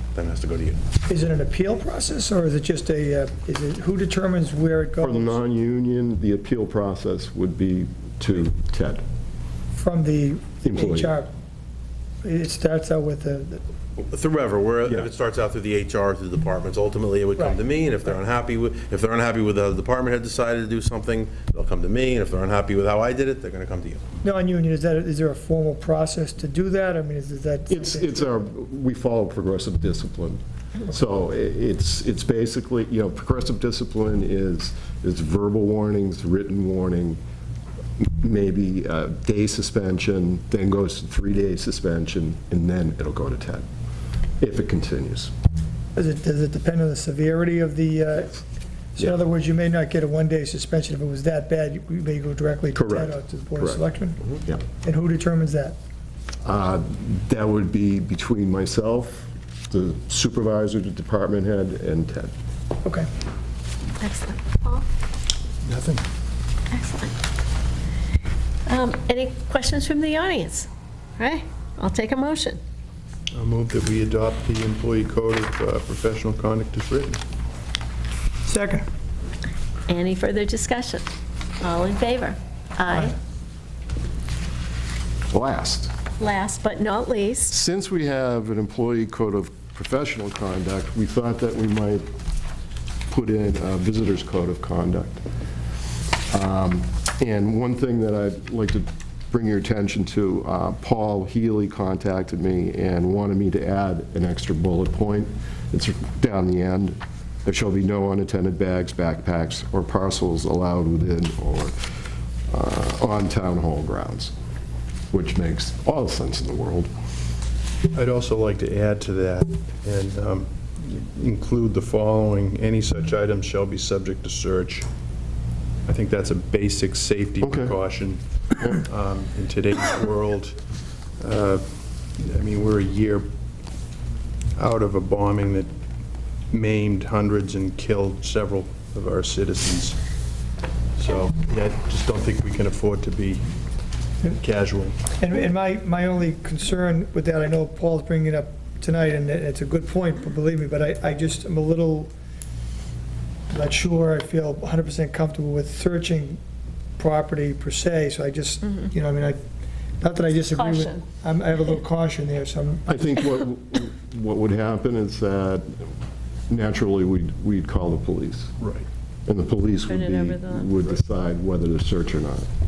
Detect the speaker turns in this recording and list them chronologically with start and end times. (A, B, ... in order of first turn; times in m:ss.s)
0:00.1-0:00.8 A
0:01.1-0:05.4 B
0:05.0-0:09.0 C
0:09.8-0:11.3 B
0:10.6-0:11.1 C
0:12.2-0:13.6 B
0:14.0-0:24.0 A
0:24.2-0:28.3 B
0:27.7-0:37.2 C
0:38.0-0:43.7 C
0:44.4-0:45.3 C
0:46.0-0:48.4 B
0:49.0-0:54.2 B
0:52.7-0:53.8 C
0:54.7-0:55.8 B
0:56.4-1:02.3 C
1:04.0-1:04.9 D
1:05.6-1:06.0 E
1:06.7-1:07.1 D
1:08.7-1:12.6 D
1:13.3-1:17.2 E
1:18.4-1:18.8 B
1:19.9-1:21.1 D
1:21.6-1:23.1 D
1:25.3-1:25.9 C
1:26.2-1:27.6 D
1:27.5-1:32.0 C
1:33.1-1:35.2 C
1:36.3-1:51.8 C
1:52.5-1:54.3 C
1:55.1-1:56.9 C
1:57.9-2:04.8 E
2:05.8-2:08.2 E
2:07.4-2:07.8 C
2:08.8-2:10.6 E
2:11.2-2:11.6 E
2:12.2-2:13.3 E
2:14.6-2:15.7 E
2:16.5-2:20.0 E
2:21.0-2:23.4 E
2:24.2-2:25.0 E
2:25.2-2:32.1 B
2:33.5-2:36.4 B
2:37.0-2:39.4 B
2:40.0-2:43.0 B
2:40.5-2:41.0 D
2:42.9-2:45.7 C
2:46.5-2:48.5 C
2:48.6-2:48.8 E
2:49.3-2:52.5 C
2:49.9-2:50.7 D